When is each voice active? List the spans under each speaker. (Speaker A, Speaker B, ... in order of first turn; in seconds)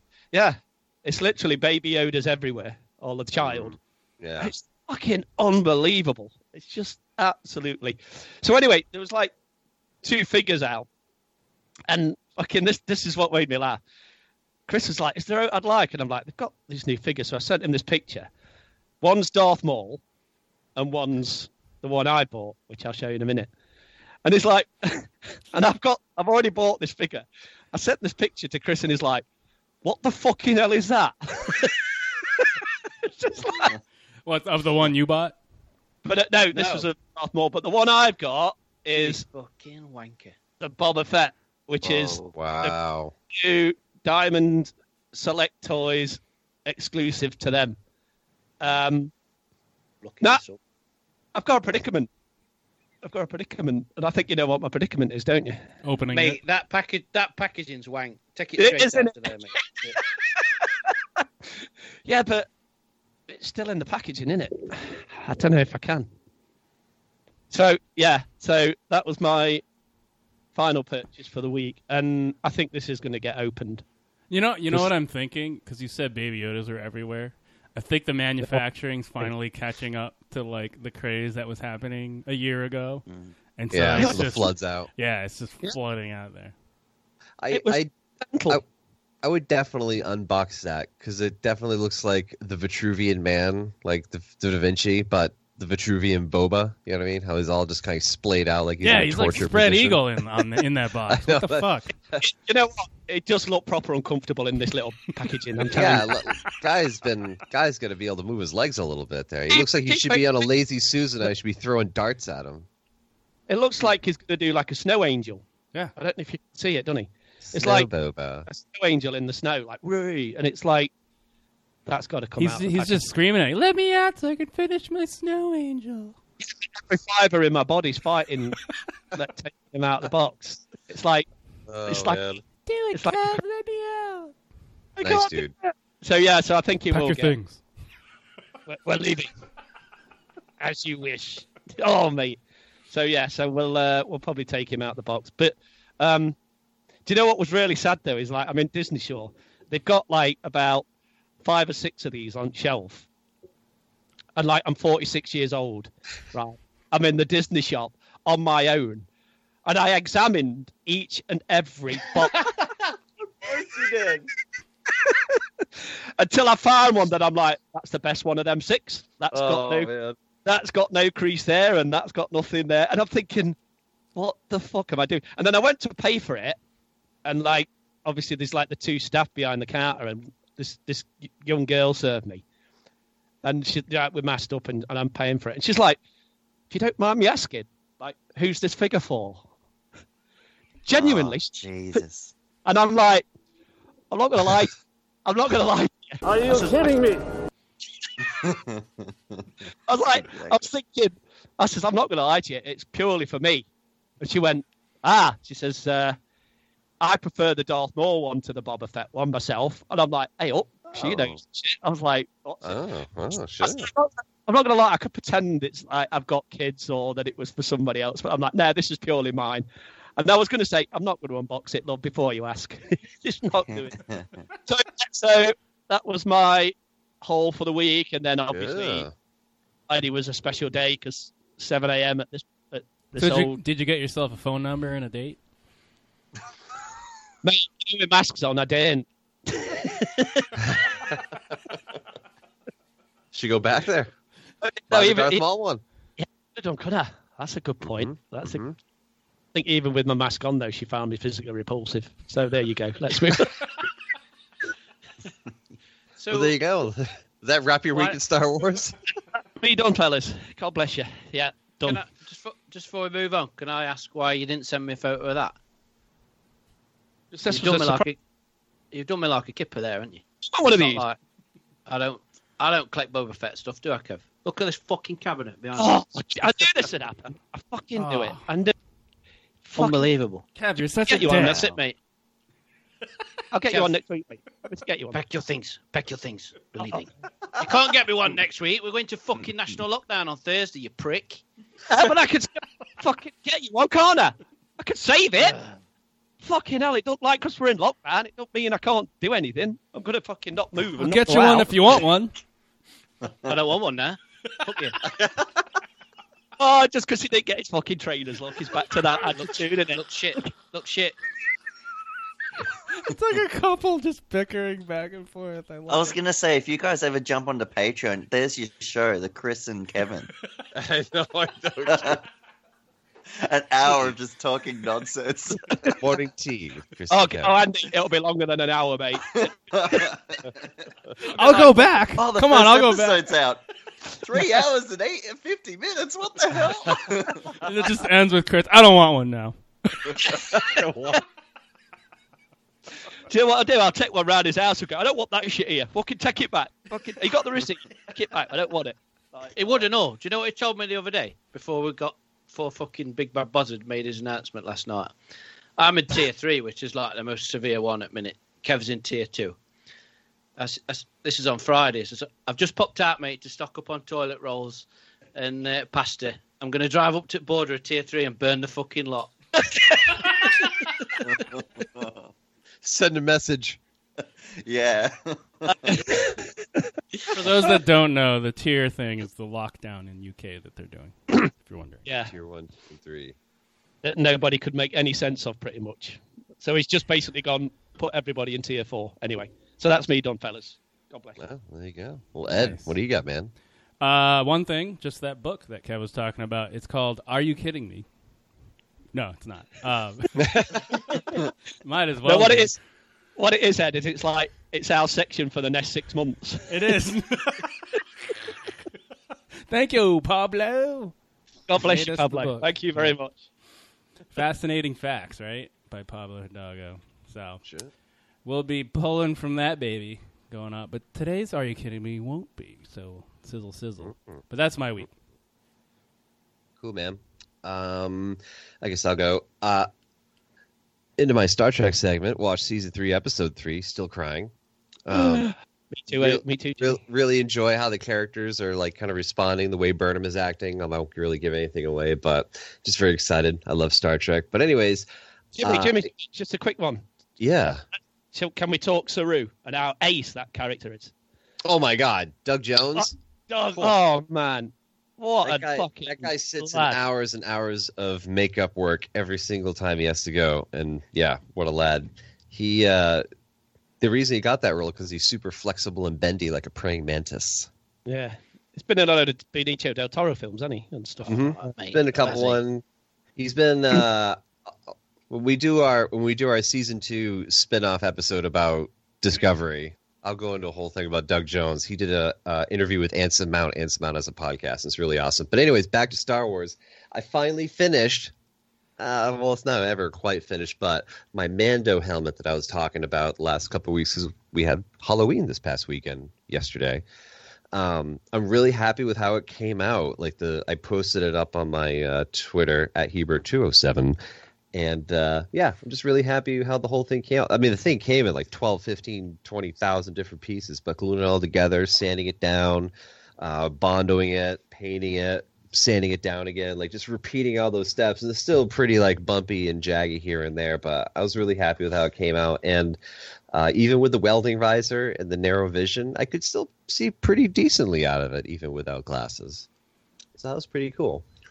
Speaker A: 0.3-3.8, 4.4-9.3, 10.0-10.9, 11.9-13.8, 14.7-18.3, 19.0-20.0, 20.8-23.5, 24.2-29.2, 29.8-33.8, 36.0-39.2, 40.6-42.8, 43.3-47.8, 48.6-49.1, 51.4-52.1, 53.0-55.6, 58.6-59.1, 60.3-60.9, 62.0-62.5, 63.3-66.1, 67.5-69.6, 70.5-73.8, 87.5-88.6, 102.2-106.1, 109.5-110.3, 113.5-115.4, 116.0-117.9, 118.5-120.9, 121.9-123.0, 126.4-128.6, 129.1-131.3, 131.9-132.3, 132.9-133.4, 135.0-137.4, 138.7-139.3, 140.6-146.4, 147.1-150.9, 151.4-153.1, 154.4-159.1, 159.7-162.5, 166.2-169.9, 170.4-173.6, 174.2-176.6, 177.2-182.4, 183.4-186.0, 186.7-189.4, 190.8-192.0, 192.7-193.2, 194.1-194.7, 195.3-197.2, 199.9-203.7, 204.2-206.2, 207.0-212.8, 213.6-224.0, 224.7-229.1, 229.9-233.6, 237.4-240.1, 244.7-245.4, 246.2-248.6, 249.5-253.7, 259.6-262.0, 267.3-268.1, 270.5-271.1, 275.8-278.7, 279.6-280.1, 281.1-281.6, 283.5-285.2, 291.9-295.6, 296.4-301.7, 306.6-310.0, 327.1-330.0, 343.3-349.8, 376.1-376.4, 382.1-382.3, 384.0-391.4, 402.2-402.8, 403.4-406.7, 411.7-413.4, 435.1-437.0, 445.6-447.1, 448.3-451.1, 453.0-457.0, 468.1-471.4
Speaker B: 3.4-4.5, 42.3-43.1, 83.7-84.9, 87.4-87.9, 89.2-100.1, 101.1-102.2, 105.7-112.7, 117.5-118.5, 131.7-132.4, 135.0-135.5, 163.4-164.3, 169.3-170.2, 211.0-211.4, 212.6-213.9, 228.5-229.1, 243.3-244.1, 244.9-245.8, 247.8-248.8, 256.3-259.0, 320.7-322.2, 326.0-327.5, 340.5-341.2, 372.8-373.8, 382.2-383.4, 391.4-393.5, 417.6-417.9, 424.0-424.4, 426.8-429.9, 431.2-434.5, 435.1-435.5, 436.1-445.1, 445.6-446.1, 447.4-447.8, 451.6-453.1, 455.4-463.2, 464.0-467.7, 471.3-472.8, 473.4-488.3, 489.0-497.0, 497.7-504.2, 504.7-523.0, 523.5-529.7, 530.4-531.3
Speaker C: 34.3-35.4, 55.8-56.4, 74.3-83.0, 83.6-86.5, 98.8-102.0, 122.4-126.2, 132.7-134.3, 136.9-137.6, 233.2-235.4, 278.0-278.4, 280.6-281.6, 301.0-302.4, 313.0-316.2, 331.3-333.3, 337.6-340.3, 377.3-382.0, 392.5-392.9, 394.0-398.1, 399.1-400.4, 401.8-402.8, 406.7-407.8, 409.7-411.1, 411.8-413.2, 414.3-417.6, 418.4-425.1
Speaker D: 36.5-36.9, 38.9-40.4, 50.0-50.6, 56.1-60.0, 256.2-256.6, 257.9-258.2, 261.8-265.6, 267.5-268.2, 268.9-271.2, 271.9-275.9, 279.8-282.0, 285.1-291.4, 295.4-295.8, 303.5-305.0, 309.2-311.2, 349.6-355.1, 355.8-359.6, 360.6-370.9, 471.2-472.6
Speaker E: 41.8-42.3, 83.1-83.3, 190.9-192.3, 198.2-199.5, 200.2-200.7, 223.7-224.4, 281.4-281.7, 305.1-305.4, 315.9-320.3, 321.9-322.2, 323.4-326.0, 329.4-330.7, 331.3-333.6, 334.2-337.6, 371.2-372.3, 374.6-376.3